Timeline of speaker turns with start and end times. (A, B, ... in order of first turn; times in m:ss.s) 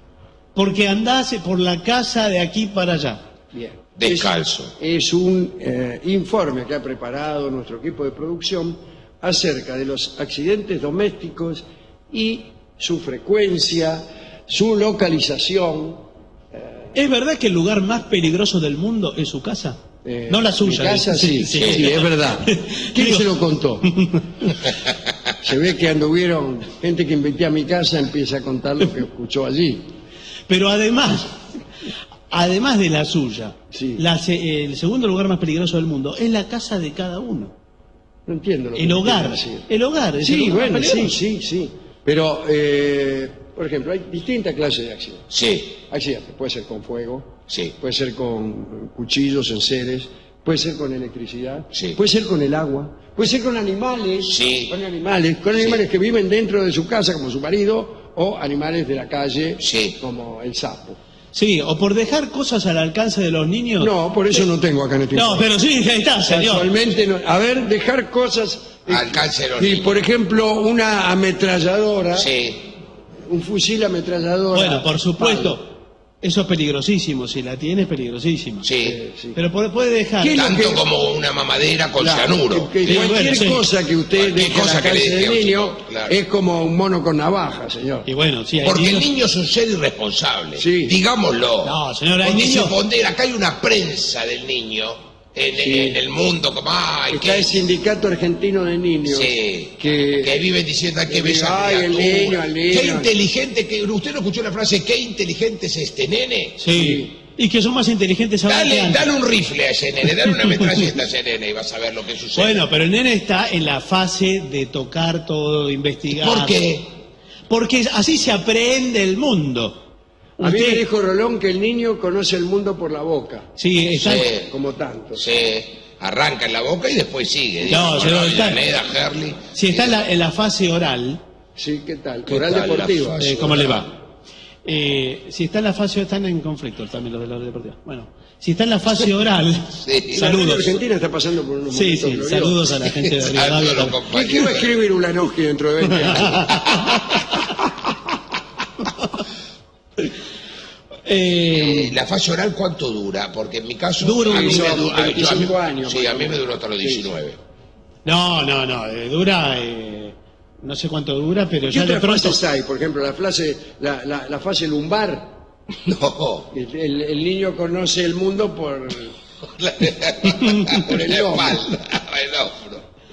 0:00.6-0:03.2 A
0:03.5-0:16.9 B
0:04.0-0:04.7 C
0:17.0-0:23.2 A
0:20.0-0:23.9 B
0:21.6-0:22.0 C
0:23.9-0:24.6 A
0:25.4-0:29.9 B
0:30.5-0:31.4 A
0:32.3-0:37.5 A
0:33.7-0:34.0 B
0:38.3-0:39.7 B
0:38.8-0:41.2 A
0:40.2-0:45.3 B
0:45.3-0:45.8 C
0:45.9-1:01.0 B
0:47.5-0:47.8 C
0:51.7-0:52.0 C
0:54.2-0:54.7 C
0:55.5-0:55.8 C
0:59.6-1:00.0 C
1:01.3-1:03.9 A
1:03.8-1:05.5 B
1:05.1-1:06.7 A
1:06.3-1:12.3 B
1:08.9-1:10.1 C
1:12.1-1:12.7 C
1:13.3-1:15.6 B
1:14.5-1:15.7 A
1:16.2-1:18.7 A
1:18.6-1:19.0 C
1:18.8-1:19.4 B
1:19.4-1:20.6 A
1:20.2-1:20.8 B
1:20.4-1:23.4 C
1:22.0-1:28.1 B
1:22.8-1:23.6 A
1:24.1-1:26.2 C
1:28.1-1:29.1 A
1:28.6-1:37.6 C
1:30.6-1:31.0 B
1:31.6-1:32.8 A
1:35.6-1:36.0 B
1:37.1-1:40.4 B
1:39.0-1:46.6 C
1:41.1-1:43.1 B
1:46.6-1:49.1 A
1:46.7-1:47.1 B
1:48.4-1:52.6 C
1:52.4-1:56.6 A
1:56.2-1:56.9 C
1:57.5-1:59.8 A
2:00.4-2:00.8 A
2:00.4-2:03.5 B
2:03.6-2:04.3 A
2:04.0-2:04.5 C
2:04.5-2:05.3 B
2:05.2-2:10.0 C
2:07.7-2:08.6 A
2:09.6-2:11.2 A
2:11.6-2:13.2 B
2:12.3-2:13.9 C
2:13.2-2:13.9 A
2:14.6-2:20.8 A
2:19.8-2:20.3 C
2:20.1-2:22.6 B
2:21.7-2:24.0 A
2:22.9-2:24.7 C
2:24.1-2:26.6 B
2:26.1-2:27.0 A
2:31.1-2:32.0 A
2:31.5-2:37.4 C
2:34.0-2:34.9 A
2:34.3-2:37.1 B
2:38.0-2:42.4 A
2:41.6-2:45.3 B
2:45.8-2:46.5 C
2:46.5-2:49.2 B
2:49.4-2:52.8 C
2:50.5-2:50.8 A
2:50.7-2:51.7 B